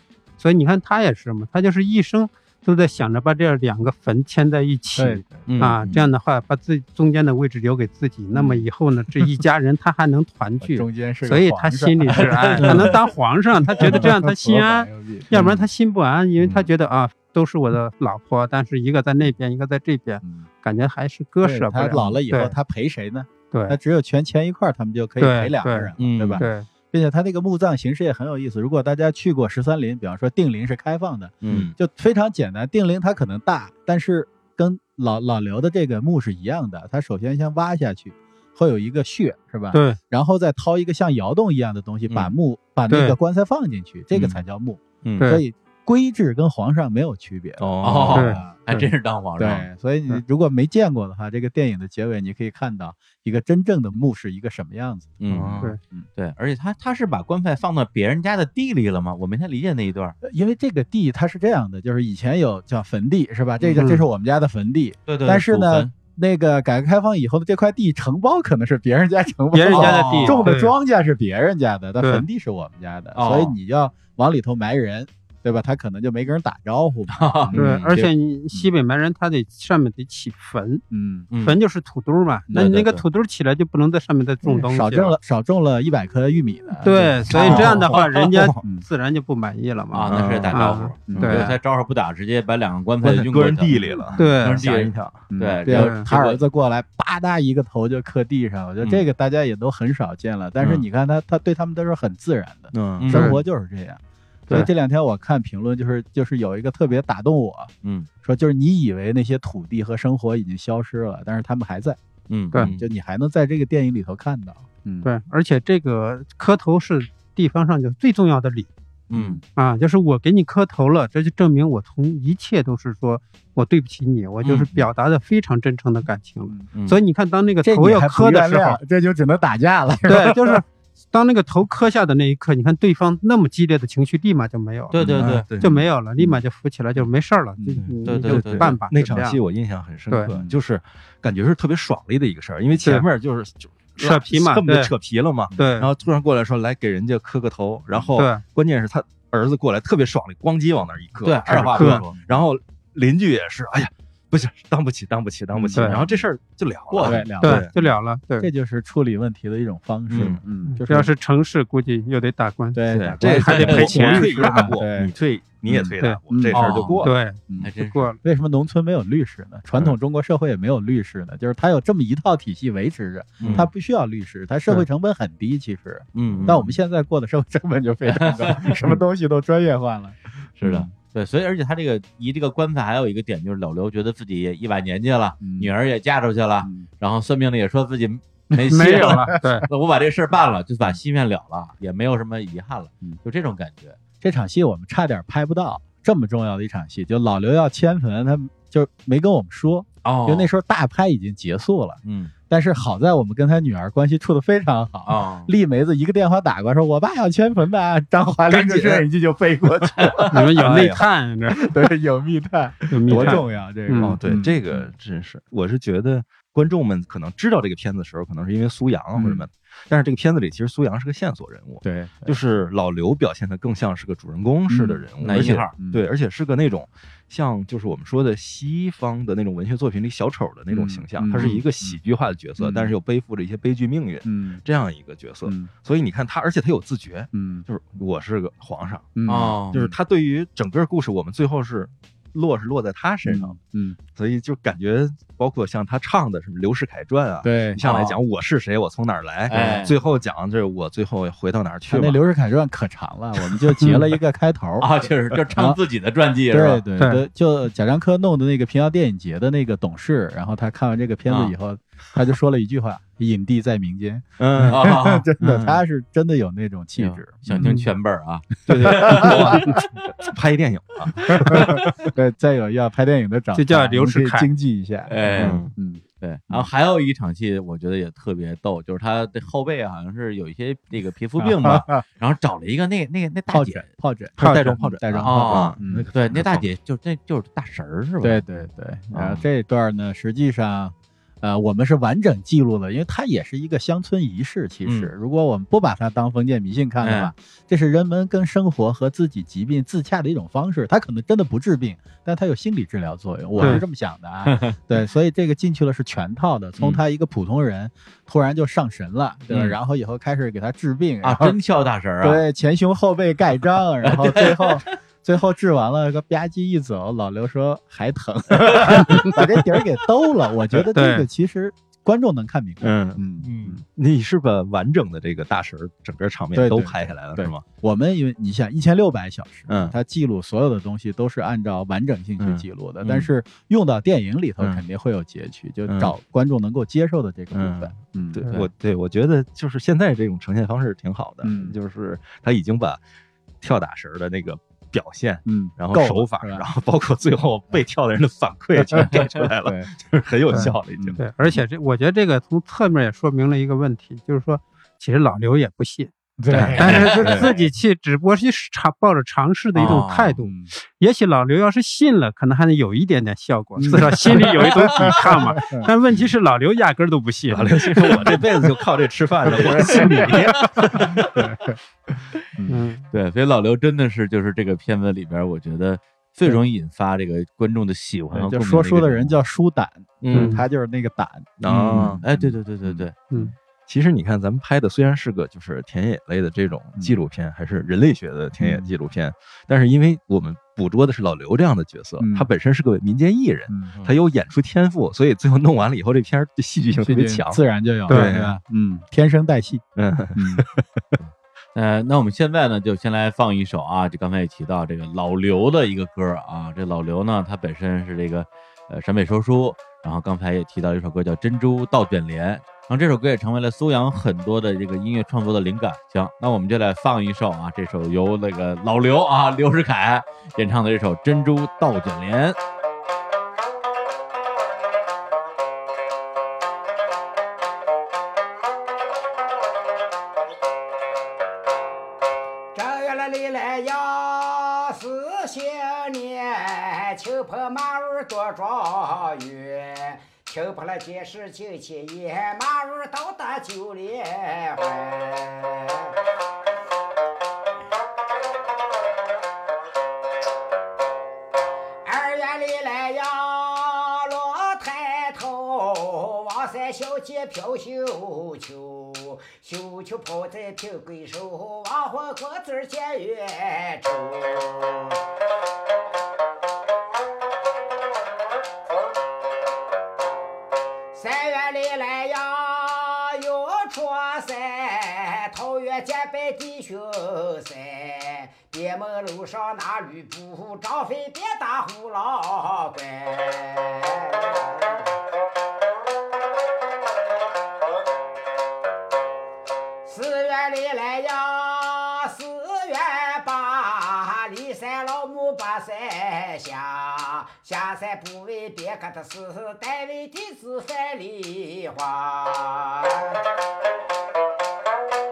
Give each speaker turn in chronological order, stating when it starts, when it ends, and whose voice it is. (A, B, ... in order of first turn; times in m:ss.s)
0:00.4-0:22.6 A
0:04.9-0:05.5 B
0:05.5-0:05.8 C
0:08.3-0:08.6 B
0:10.6-0:12.8 B
0:12.1-0:12.9 C
0:13.7-0:15.4 B
0:20.2-0:20.5 B
0:21.4-0:48.5 B
0:23.5-0:23.8 A
0:25.2-0:26.7 A
0:26.0-0:26.4 C
0:31.4-0:31.7 C
0:31.5-0:31.7 D
0:39.7-0:40.0 A
0:42.1-0:42.3 C
0:42.9-0:43.2 A
0:44.1-0:44.4 C
0:47.6-0:48.4 D
0:47.8-0:49.7 C
0:48.1-0:48.9 A
0:49.4-0:55.2 B
0:55.2-1:00.2 C
0:55.3-0:55.7 D
1:00.2-1:17.8 B
1:03.8-1:04.0 A
1:05.1-1:05.9 C
1:09.5-1:10.7 A
1:09.7-1:10.4 C
1:12.0-1:12.2 A
1:13.1-1:13.5 C
1:17.1-1:18.0 C
1:17.6-1:20.8 A
1:20.9-1:21.3 B
1:21.3-1:21.6 C
1:21.4-1:25.2 A
1:22.5-1:23.0 C
1:24.4-1:27.8 B
1:26.8-1:31.5 A
1:27.3-1:28.5 D
1:27.3-1:28.0 C
1:29.9-1:33.9 C
1:30.1-1:30.6 D
1:31.1-1:31.5 B
1:33.0-1:35.2 D
1:34.0-1:34.3 B
1:34.1-1:34.6 A
1:34.4-1:36.4 C
1:35.3-1:47.7 B
1:35.7-1:36.1 A
1:42.7-1:43.1 D
1:43.0-1:43.3 C
1:43.1-1:43.4 A
1:47.8-1:48.1 C
1:48.2-1:52.0 B
1:52.3-1:52.6 C
1:52.6-1:55.1 B
1:52.6-1:52.8 D
1:55.0-1:58.7 A
1:59.1-1:59.4 C
1:59.1-1:59.4 B
1:59.6-2:08.8 A
2:04.4-2:04.7 C
2:06.7-2:07.0 C
2:07.6-2:10.6 B
2:10.1-2:19.4 A
2:14.9-2:15.4 C
2:15.0-2:16.4 D
2:15.6-2:15.9 B
2:17.6-2:17.9 B
2:17.8-2:37.7 D
2:18.0-2:18.7 C
2:20.1-2:20.3 A
2:20.3-2:20.6 B
2:24.0-2:24.9 A
2:25.6-2:25.9 A
2:28.2-2:28.4 A
2:31.2-2:32.1 C
2:31.5-2:32.2 B
2:31.8-2:32.0 A
2:35.5-2:36.1 B
2:36.9-2:37.2 C
2:37.0-2:41.1 B
2:37.4-2:38.5 A
2:40.1-2:40.3 C
2:40.2-2:40.4 D
2:40.6-2:44.7 A
2:42.7-2:45.1 B
2:42.9-2:44.2 C
2:43.2-2:47.1 D
2:45.6-3:00.8 B
2:46.5-2:47.0 C
2:47.0-2:48.2 A
2:47.6-2:48.1 C
2:53.4-2:53.7 C
2:53.4-2:53.7 D
2:56.1-2:56.6 C
2:56.3-2:56.7 D
2:58.1-2:58.9 C
3:00.6-3:14.0 C
3:05.4-3:05.7 B
3:06.6-3:06.9 B
3:08.5-3:09.6 B
3:08.7-3:09.7 A
3:14.2-3:31.0 B
3:20.0-3:20.5 C
3:22.0-3:22.3 C
3:25.0-3:25.5 C
3:28.5-3:29.0 C
3:30.0-3:31.0 C
3:30.3-3:31.6 A
3:30.6-3:31.0 D
3:31.5-3:34.9 B
3:32.9-3:34.2 A
3:33.1-3:33.4 D
3:34.0-3:59.1 D
3:39.1-3:39.4 B
3:41.8-3:42.4 B
3:44.7-3:46.0 B
3:45.2-3:45.7 C
3:50.7-3:52.0 B
3:52.6-3:53.0 B
3:54.2-3:54.6 B
3:55.4-3:55.7 B
3:57.3-3:57.6 B
3:59.2-4:00.0 B
3:59.2-3:59.8 C
3:59.7-4:03.6 D
4:03.2-4:04.0 B
4:04.1-4:12.2 D
4:07.4-4:07.8 B
4:07.8-4:08.2 C
4:09.5-4:09.9 C
4:11.9-4:14.9 B
4:14.8-4:16.8 C
4:15.5-4:15.8 B
4:16.5-4:27.8 B
4:17.0-4:17.2 A
4:21.3-4:21.5 C
4:24.4-4:25.7 D
4:24.7-4:25.2 C
4:27.0-4:29.9 C
4:28.7-4:32.0 D
4:28.7-4:29.8 B
4:31.3-4:36.6 B
4:31.5-4:31.8 C
4:33.5-4:34.5 A
4:35.1-4:35.6 C
4:35.3-4:35.7 D
4:36.2-4:43.9 C
4:41.4-4:42.0 B
4:43.5-4:46.1 B
4:44.4-4:46.6 D
4:45.2-4:48.4 C
4:48.2-5:11.6 B
4:49.1-4:49.4 C
4:54.8-4:55.1 C
4:57.0-4:57.3 C
5:03.6-5:03.8 C
5:04.4-5:04.8 C
5:09.5-5:09.8 C
5:11.2-5:12.4 C
5:12.2-5:23.8 B
5:14.0-5:14.9 C
5:18.6-5:19.1 C
5:20.9-5:21.3 A
5:22.8-5:27.6 D
5:23.4-5:23.8 C
5:26.5-5:38.4 B
5:29.7-5:30.0 D
5:32.4-5:33.2 D
5:35.9-5:36.1 D
5:37.5-5:43.0 D
5:41.4-5:41.7 B
5:43.6-5:51.2 D
5:45.4-5:46.6 B
5:48.8-5:49.9 B
5:50.5-5:56.1 A
5:50.5-5:51.2 B
5:56.4-5:57.5 B
5:56.5-5:57.4 D
5:56.8-6:08.2 A
5:56.8-5:57.4 C
5:59.8-6:00.4 C
5:59.8-6:00.7 B
6:03.8-6:05.9 B
6:07.5-6:11.3 D
6:09.4-6:11.8 B
6:09.7-6:11.3 C
6:12.6-6:12.8 B
6:12.7-6:13.1 A
6:13.1-6:19.3 C
6:18.3-6:23.5 B
6:20.2-6:20.6 D
6:20.3-6:20.6 A
6:21.6-6:22.2 D
6:21.6-6:23.1 C
6:23.9-6:38.5 D
6:28.6-6:28.9 B
6:32.2-6:32.5 B
6:37.0-6:40.7 B
6:38.1-6:38.3 A
6:40.0-6:40.8 D
6:41.2-7:02.6 C
7:12.7-7:26.1 E
7:32.0-7:45.2 E
7:51.1-8:05.0 E
8:10.0-8:23.4 E